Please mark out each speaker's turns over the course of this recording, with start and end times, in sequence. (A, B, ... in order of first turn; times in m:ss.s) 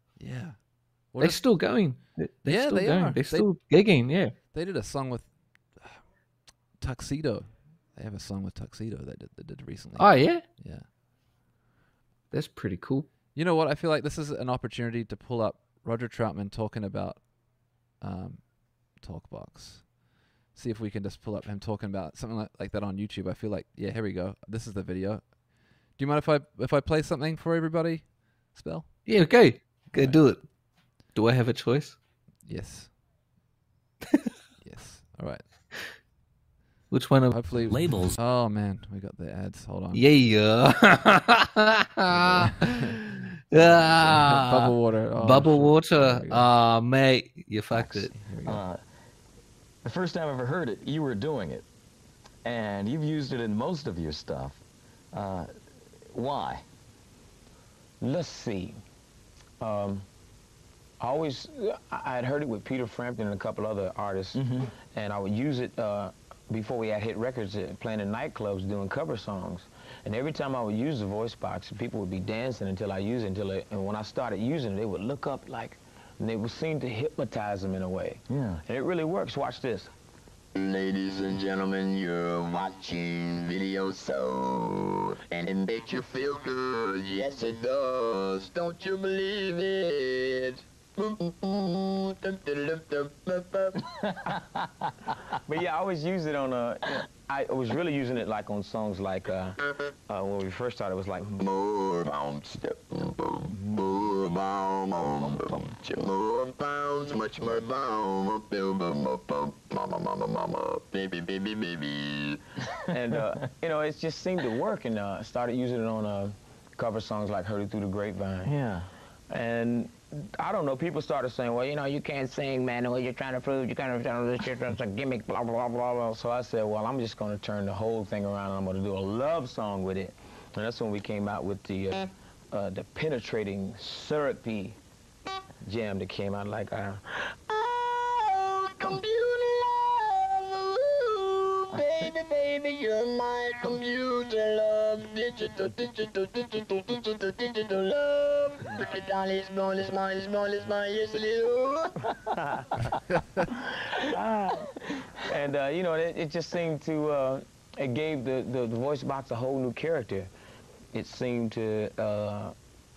0:00.2-0:00.6 A
0:01.1-0:01.4 A
0:01.2-0:04.3 B
0:02.4-0:03.5 A
0:04.5-0:06.0 A
0:06.8-0:10.8 A
0:10.0-0:10.4 B
0:12.3-0:13.1 B
0:13.3-0:17.3 A
0:18.0-0:19.9 A
0:20.5-0:25.3 A
0:25.9-0:28.9 A
0:29.0-0:30.4 B
0:29.9-0:30.2 A
0:31.1-0:32.0 B
0:32.4-0:32.9 A
0:34.6-0:35.4 A
0:36.9-0:37.3 B
0:37.3-0:40.0 A
0:37.7-0:38.2 C
0:39.9-0:48.1 B
0:42.1-0:43.0 A
0:43.5-0:46.5 A
0:47.7-0:48.6 A
0:48.4-0:48.8 C
0:49.8-0:51.7 C
0:52.4-0:54.6 C
0:55.1-0:56.6 C
0:58.0-0:58.8 D
0:59.6-1:00.0 D
1:01.0-1:19.9 D
1:04.3-1:04.7 C
1:18.3-1:18.6 C
1:20.5-1:34.1 E
1:35.4-1:39.6 D
1:40.1-1:41.4 D
1:41.4-1:52.5 E
1:52.9-1:58.6 D
1:58.4-1:58.9 C
1:59.3-2:14.8 D
2:15.6-2:17.3 D
2:17.5-2:32.1 E
2:32.4-2:32.7 D
2:32.9-2:33.5 A
2:34.0-2:40.3 D
2:40.9-2:42.5 D